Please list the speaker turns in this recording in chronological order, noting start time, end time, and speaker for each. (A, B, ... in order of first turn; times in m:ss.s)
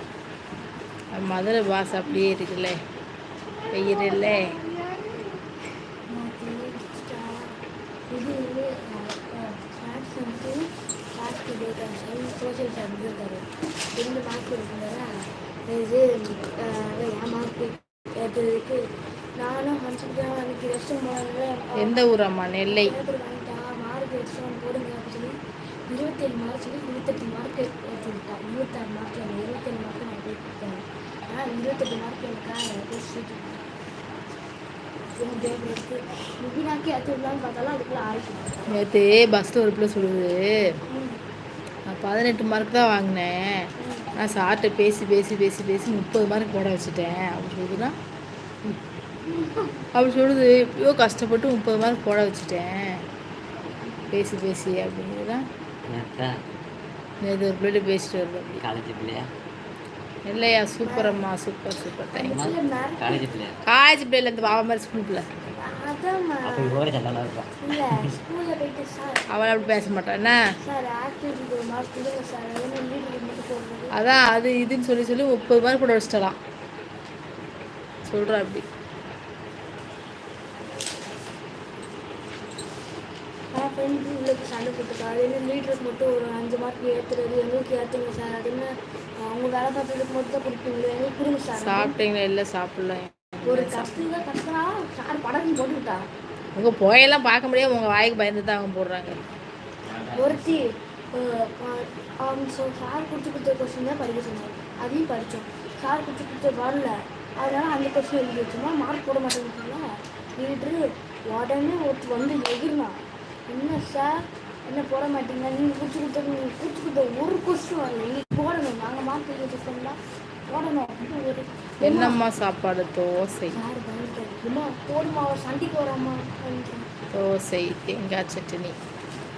0:01.1-0:02.8 A
0:03.6-0:05.4 B
0:03.7-0:04.5 A
0:06.1-0:07.5 B
0:08.1-0:15.1 B
0:15.7-0:18.8 B
0:19.4-0:22.0 B
0:21.8-0:22.9 A
0:22.6-0:25.4 B
0:25.9-0:33.6 B
0:35.2-0:38.8 B
0:38.7-0:40.4 A
0:40.9-0:41.2 B
0:41.9-0:47.9 A
0:43.8-0:44.1 B
0:49.2-0:49.8 B
0:49.9-0:52.8 A
0:54.1-0:55.4 A
0:55.8-0:56.3 C
0:57.2-0:58.6 A
0:58.6-0:59.3 C
1:00.2-1:02.4 A
1:00.8-1:01.2 B
1:02.1-1:03.3 B
1:02.3-1:03.6 C
1:03.6-1:05.3 A
1:05.6-1:06.8 B
1:06.4-1:08.1 C
1:07.6-1:13.9 B
1:09.3-1:10.4 A
1:14.0-1:16.4 A
1:18.0-1:18.6 A
1:23.5-1:32.0 B
1:31.6-1:34.0 A
1:33.4-1:36.0 B
1:36.6-1:39.2 A
1:39.8-1:40.6 C
1:40.1-1:49.8 B
1:50.4-1:53.0 B
1:53.5-1:54.1 B
1:54.7-2:02.2 B
2:01.8-2:03.6 A
2:03.5-2:06.9 B
2:07.1-2:08.7 A